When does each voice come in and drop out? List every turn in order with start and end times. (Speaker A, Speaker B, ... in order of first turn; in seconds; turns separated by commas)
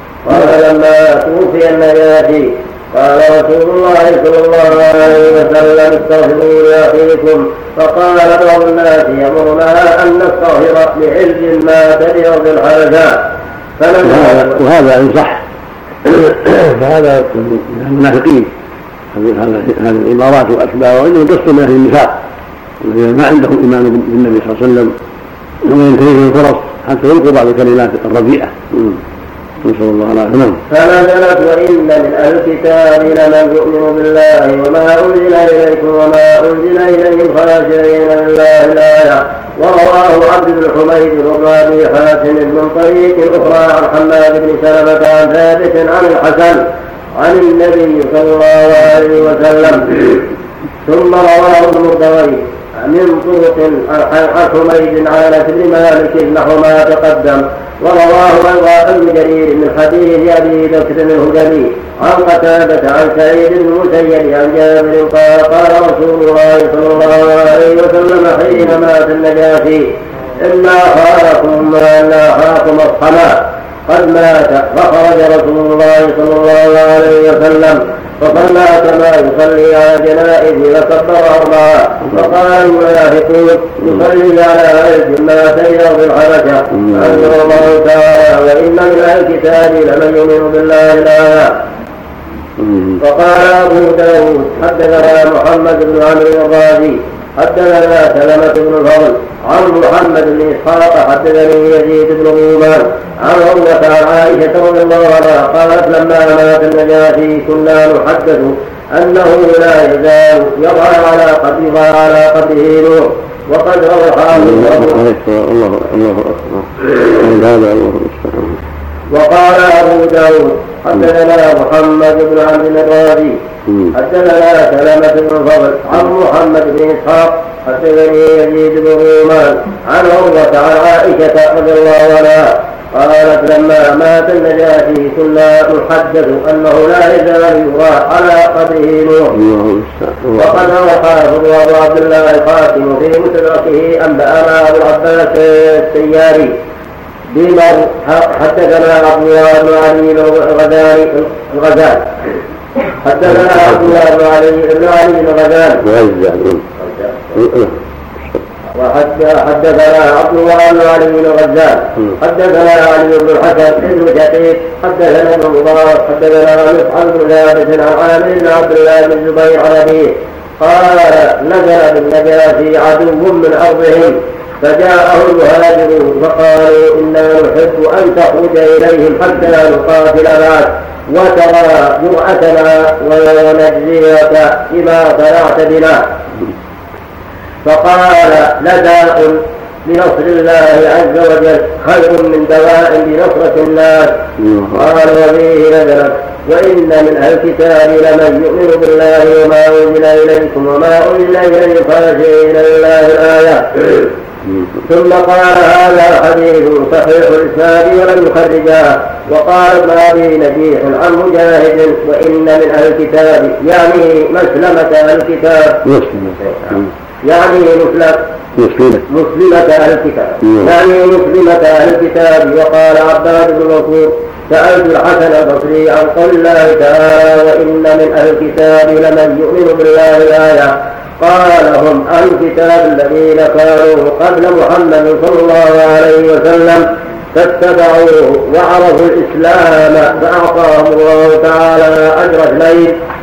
Speaker A: 0.2-13.2, Speaker A: 13.8-14.6, Speaker B: 14.0-15.4, Speaker B: 16.1-18.5, Speaker B: 19.1-22.1, Speaker B: 22.8-24.9, Speaker B: 25.6-29.0, Speaker B: 29.6-30.6, Speaker A: 30.7-46.6, Speaker A: 47.2-50.2, Speaker A: 50.9-69.9, Speaker A: 70.4-91.5, Speaker B: 86.8-87.2, Speaker B: 92.6-93.0, Speaker A: 93.0-115.0, Speaker B: 114.4-118.6, Speaker A: 119.1-123.4, Speaker B: 123.7-123.9, Speaker A: 123.9-139.3, Speaker B: 139.3-140.7, Speaker A: 140.4-146.5, Speaker A: 147.3-152.2, Speaker A: 153.0-155.8, Speaker B: 155.8-156.7, Speaker B: 157.3-157.8, Speaker A: 158.8-186.0, Speaker A: 187.7-194.2, Speaker B: 194.4-194.8, Speaker A: 194.7-204.1, Speaker A: 204.9-215.8, Speaker B: 215.8-216.9, Speaker A: 217.2-218.2, Speaker B: 218.6-219.1, Speaker A: 219.1-242.9, Speaker B: 220.4-220.7